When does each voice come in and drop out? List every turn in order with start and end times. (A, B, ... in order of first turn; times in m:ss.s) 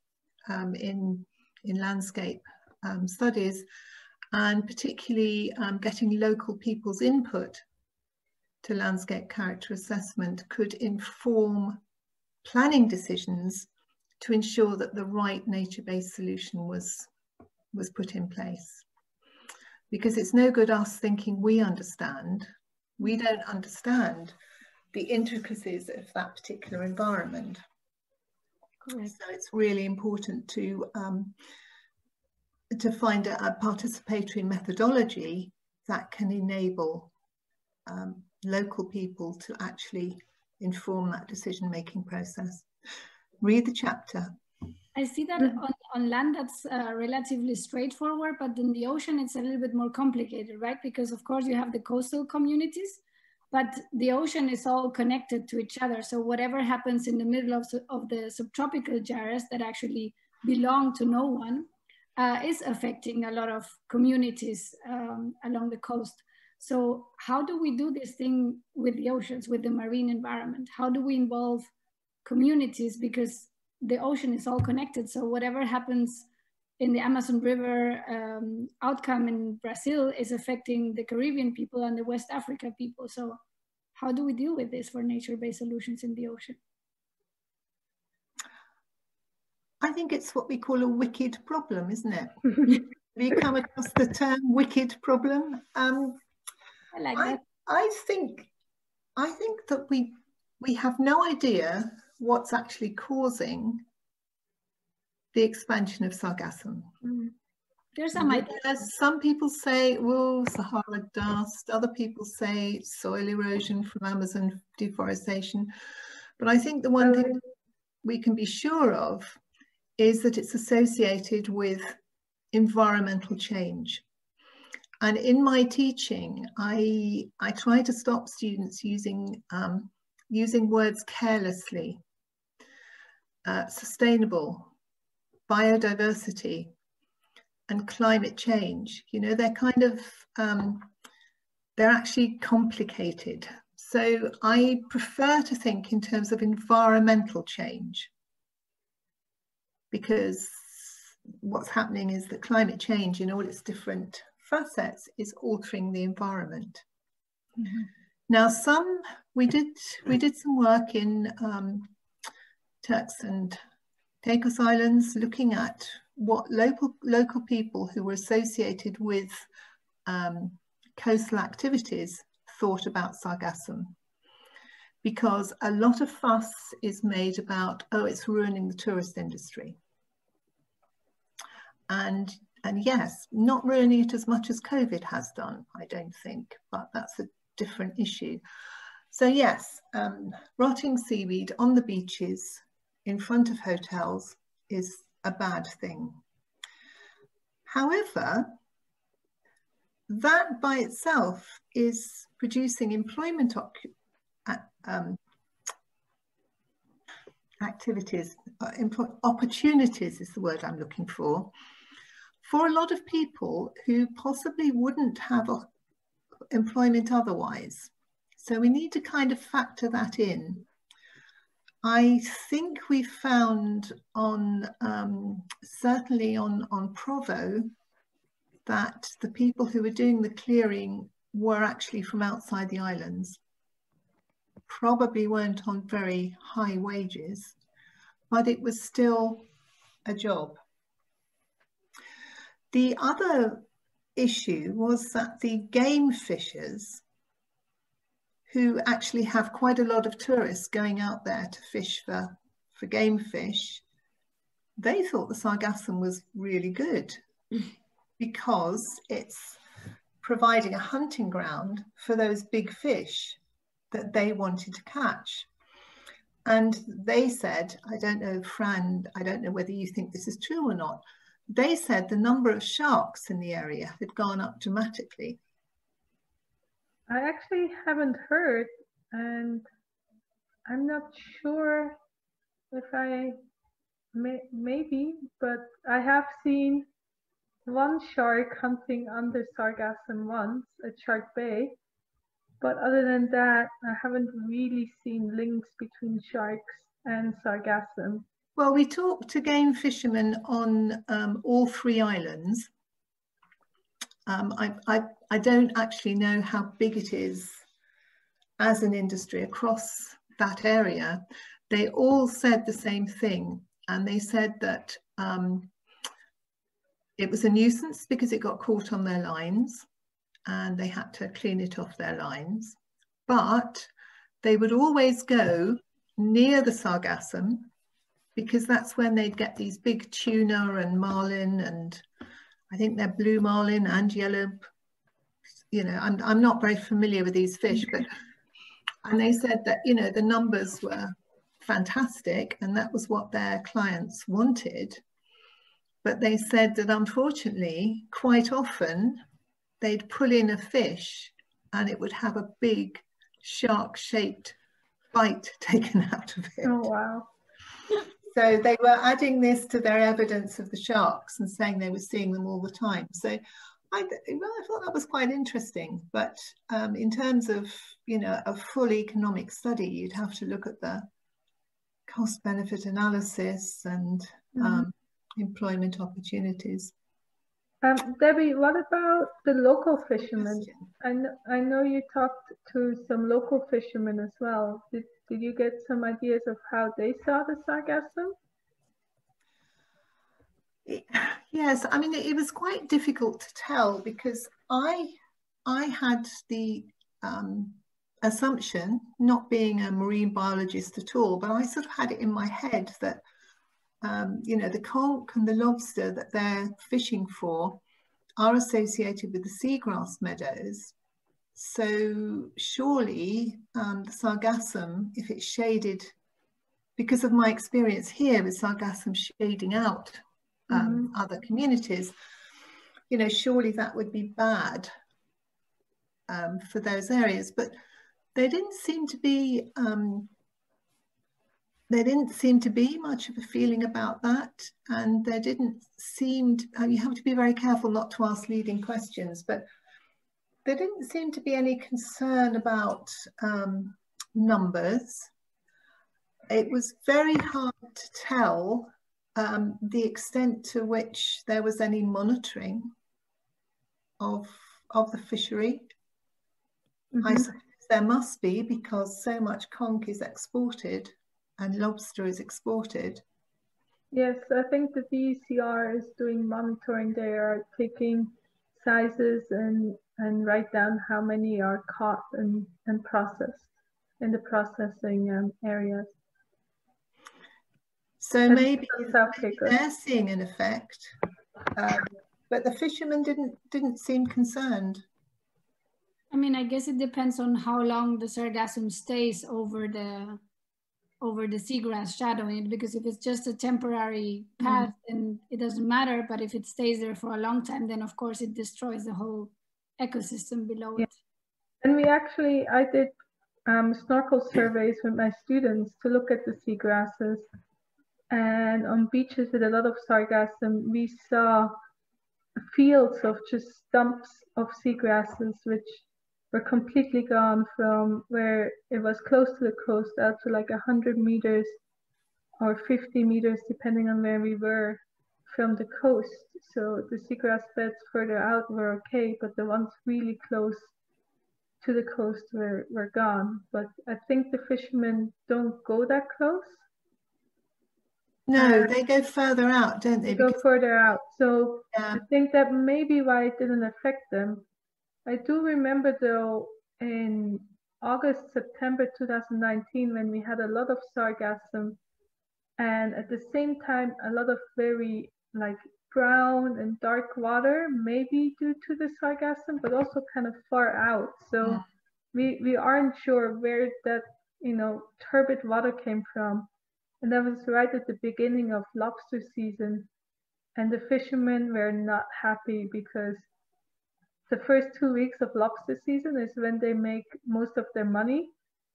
0:00.5-0:03.7 A
0:04.3-0:07.6 A
0:08.6-0:11.8 A
0:12.4-0:13.7 A
0:14.2-0:17.1 A
0:17.7-0:18.8 A
0:19.9-0:24.4 A
0:24.9-0:27.6 A
0:28.8-0:29.2 B
0:29.1-0:31.4 A
0:32.7-0:37.1 A
0:37.9-0:42.7 A
0:43.4-0:44.3 A
0:45.0-0:53.0 B
0:53.5-1:11.7 B
1:12.2-1:16.3 B
1:16.8-1:23.4 B
1:24.0-1:26.6 B
1:29.8-1:36.2 A
1:36.9-1:37.4 B
1:37.2-1:38.5 A
1:39.2-1:43.8 A
1:45.3-1:46.9 A
1:47.0-1:47.3 C
1:48.0-1:48.6 B
1:48.2-1:55.7 A
1:56.4-1:57.4 A
1:57.0-1:57.4 C
1:58.0-1:59.4 A
2:00.0-2:02.0 A
2:02.5-2:04.0 A
2:05.0-2:12.0 A
2:13.4-2:14.7 A
2:15.5-2:16.7 A
2:17.7-2:20.9 A
2:21.8-2:28.1 A
2:29.9-2:36.8 A
2:38.3-2:41.9 A
2:42.8-2:43.6 A
2:44.2-2:49.5 A
2:50.1-2:53.9 A
2:55.0-2:59.8 A
3:01.9-3:08.4 A
3:09.1-3:16.2 A
3:17.7-3:18.6 A
3:20.1-3:23.9 A
3:24.5-3:25.2 A
3:27.6-3:31.5 A
3:32.4-3:35.7 A
3:36.5-3:40.7 A
3:41.8-3:47.7 A
3:48.7-3:53.4 A
3:54.7-3:57.6 A
3:58.3-3:59.5 A
4:00.1-4:00.6 A
4:02.7-4:07.0 A
4:08.5-4:13.8 A
4:14.8-4:17.2 A
4:18.2-4:19.6 A
4:20.2-4:23.4 A
4:23.9-4:25.5 A
4:26.5-4:35.4 A
4:37.1-4:39.7 C
4:40.7-4:42.0 C
4:42.7-4:43.4 C
4:44.1-4:46.9 C
4:47.7-4:51.8 C
4:52.6-4:58.2 C
4:58.6-5:02.7 A
5:04.3-5:07.6 A
5:08.6-5:15.7 A
5:17.2-5:19.9 A
5:20.5-5:23.9 A
5:24.4-5:27.7 A
5:28.4-5:32.0 A
5:32.7-5:34.7 A
5:35.7-5:38.1 A
5:39.0-5:45.0 A
5:46.0-5:49.2 A
5:49.8-5:54.6 A
5:55.1-5:56.9 A
5:56.6-5:57.3 C
5:58.3-6:11.1 A
6:12.1-6:16.9 A
6:14.6-6:14.9 C
6:17.8-6:28.4 C
6:20.2-6:20.9 A
6:30.9-6:43.2 A
6:44.0-6:47.8 A
6:48.4-6:50.9 A
6:51.6-6:56.2 A
6:57.0-7:02.1 A
7:00.7-7:01.1 C
7:03.1-7:04.9 A
7:06.3-7:07.7 A
7:08.4-7:10.3 A
7:11.9-7:19.7 A
7:20.6-7:25.3 A
7:26.5-7:32.9 A
7:34.2-7:35.9 A
7:37.1-7:37.5 C
7:37.2-7:43.2 A
7:44.1-7:53.7 C
7:54.2-7:56.1 C
7:58.2-8:01.2 A
7:58.5-7:59.8 C
8:01.8-8:05.0 A
8:06.3-8:10.4 B
8:11.2-8:21.1 B
8:21.8-8:23.2 C
8:23.7-8:27.5 C
8:28.3-8:31.8 C
8:32.7-8:41.7 C
8:42.6-8:50.9 C
8:51.8-8:56.8 C
8:58.5-9:00.6 A
8:58.6-8:58.9 C
9:00.3-9:04.6 C
9:01.9-9:02.2 A
9:05.3-9:12.0 C
9:12.8-9:26.7 C
9:27.2-9:30.1 C
9:30.8-9:33.5 C
9:34.5-9:38.5 C